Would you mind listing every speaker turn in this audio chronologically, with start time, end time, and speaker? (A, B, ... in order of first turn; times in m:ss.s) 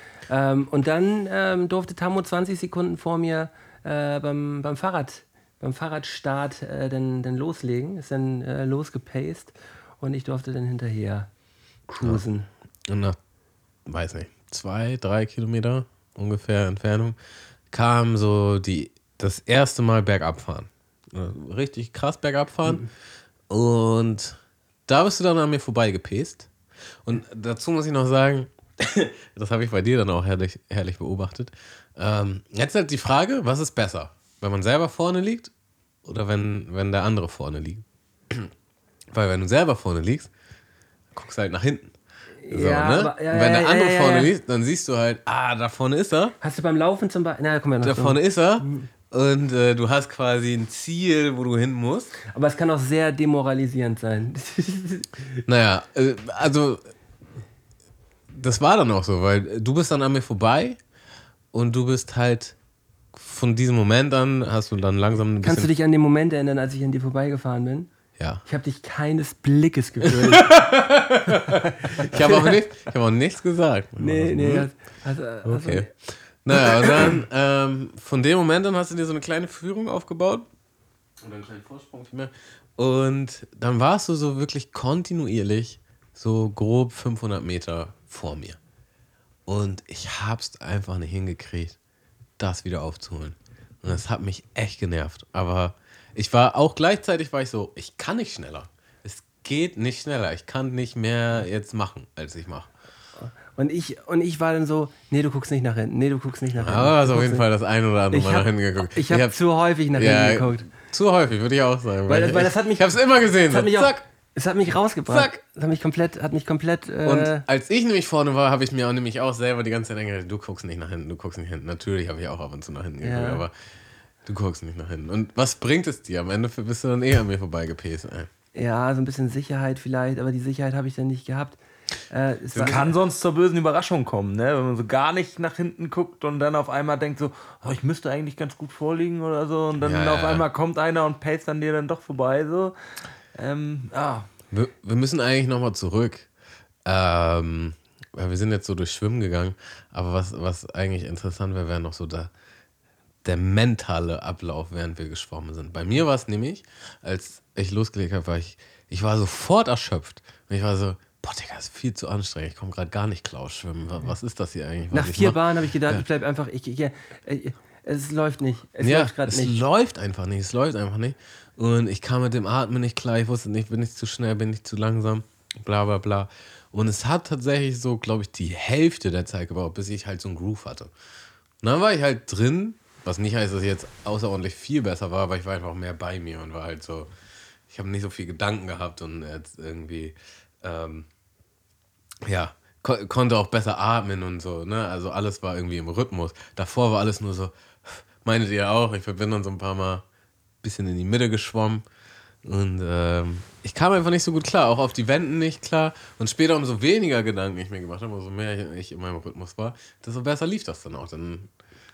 0:00.3-0:11.3 A
0:11.9-0:12.5 A
0:12.9-0:13.2 B
0:13.9-0:17.2 B
0:17.7-0:22.9 B
0:23.5-0:26.5 B
0:27.0-0:35.5 B
0:36.0-0:38.5 B
0:39.1-0:40.3 B
0:41.1-0:41.9 B
0:42.4-0:44.3 A
0:42.5-0:46.4 B
0:46.4-0:48.9 A
0:47.8-0:52.1 B
0:52.3-0:55.4 A
0:55.5-0:56.8 B
0:58.3-1:00.8 B
1:01.5-1:02.6 B
1:03.1-1:05.7 B
1:05.4-1:07.9 A
1:08.2-1:08.4 B
1:08.4-1:10.5 A
1:10.0-1:14.7 B
1:12.0-1:12.5 A
1:14.0-1:15.9 A
1:15.4-1:20.5 B
1:21.2-1:28.6 B
1:29.5-1:31.8 B
1:32.4-1:42.7 B
1:43.2-1:47.5 A
1:46.6-1:49.4 B
1:48.1-1:50.7 A
1:49.9-1:54.0 B
1:52.1-1:57.4 A
1:55.1-1:55.4 B
1:57.1-2:03.5 B
2:03.0-2:03.4 A
2:04.3-2:08.3 B
2:08.6-2:11.6 A
2:12.1-2:12.9 A
2:12.5-2:12.8 B
2:12.6-2:22.8 C
2:19.8-2:20.5 B
2:23.4-2:24.3 C
2:24.5-2:26.3 B
2:26.8-2:32.3 B
2:33.2-2:46.0 B
2:44.9-2:49.6 A
2:48.8-3:00.9 B
3:01.6-3:07.1 B
3:07.7-3:11.1 B
3:12.2-3:20.0 B
3:20.6-3:21.8 B
3:22.4-3:31.5 B